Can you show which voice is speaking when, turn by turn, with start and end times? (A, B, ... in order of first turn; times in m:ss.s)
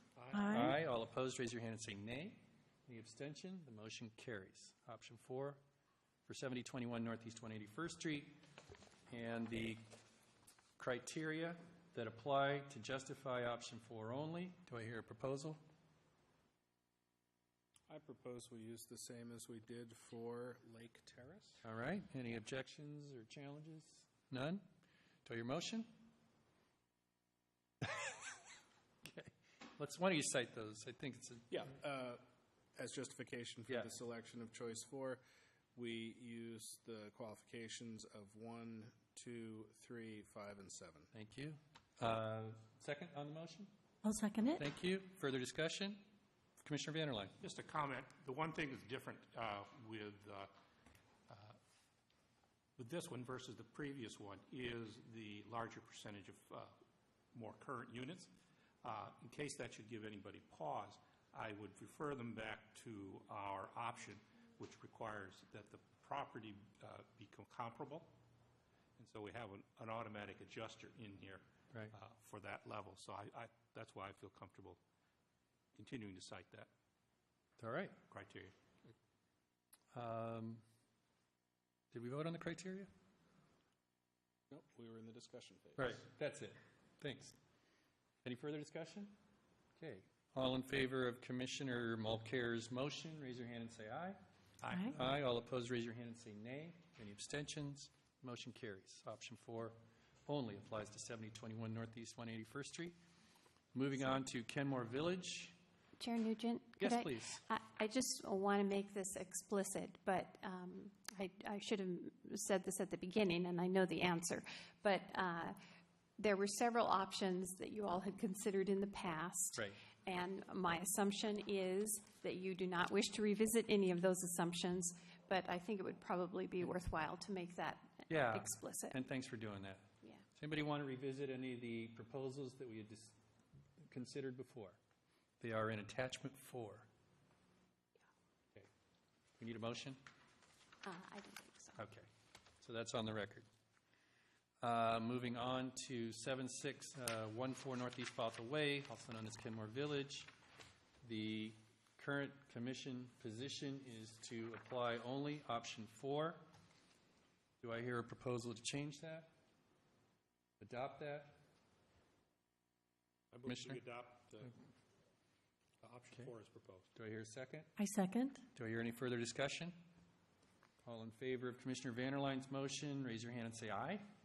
0:00.2-0:00.8 A
0:00.3-0:00.8 B
0:00.5-0:05.6 C
0:06.3-0:08.4 C
0:09.1-0:09.8 C
0:10.8-0:15.6 C
0:17.9-0:21.6 D
0:21.6-0:24.7 C
0:25.2-0:25.9 C
0:29.0-0:31.7 C
0:31.5-0:32.2 D
0:32.8-0:35.2 D
0:35.8-0:41.1 D
0:41.1-0:43.7 C
0:44.0-0:44.6 B
0:44.6-0:46.1 C
0:46.6-0:47.4 C
0:47.4-0:50.5 A
0:51.3-0:51.6 A
0:52.8-0:56.8 A
0:57.3-0:58.3 A
0:58.8-1:08.1 A
1:09.0-1:14.8 A
1:15.8-1:16.7 A
1:17.6-1:18.0 C
1:18.1-1:18.9 A
1:19.9-1:20.6 C
1:21.9-1:22.9 C
1:24.5-1:26.0 D
1:25.8-1:27.4 C
1:28.2-1:29.2 C
1:29.8-1:34.2 C
1:34.6-1:34.9 A
1:34.7-1:35.0 B
1:34.9-1:43.0 C
1:43.7-1:45.6 C
1:46.0-1:55.6 E
1:46.8-1:47.4 C
1:56.2-2:09.0 E
2:08.1-2:13.2 C
2:13.8-2:14.8 C
2:15.4-2:16.9 C
2:19.4-2:20.0 C
2:20.8-2:21.8 E
2:21.8-2:22.1 C
2:22.6-2:23.5 C
2:24.6-2:30.3 C
2:31.0-2:36.4 C
2:37.6-2:39.3 C
2:40.6-2:41.4 C
2:43.3-2:44.6 A
2:43.5-2:43.8 C
2:45.8-2:46.9 A
2:47.0-2:47.7 C
2:47.8-2:48.4 B
2:48.6-2:49.8 C
2:50.8-2:54.1 C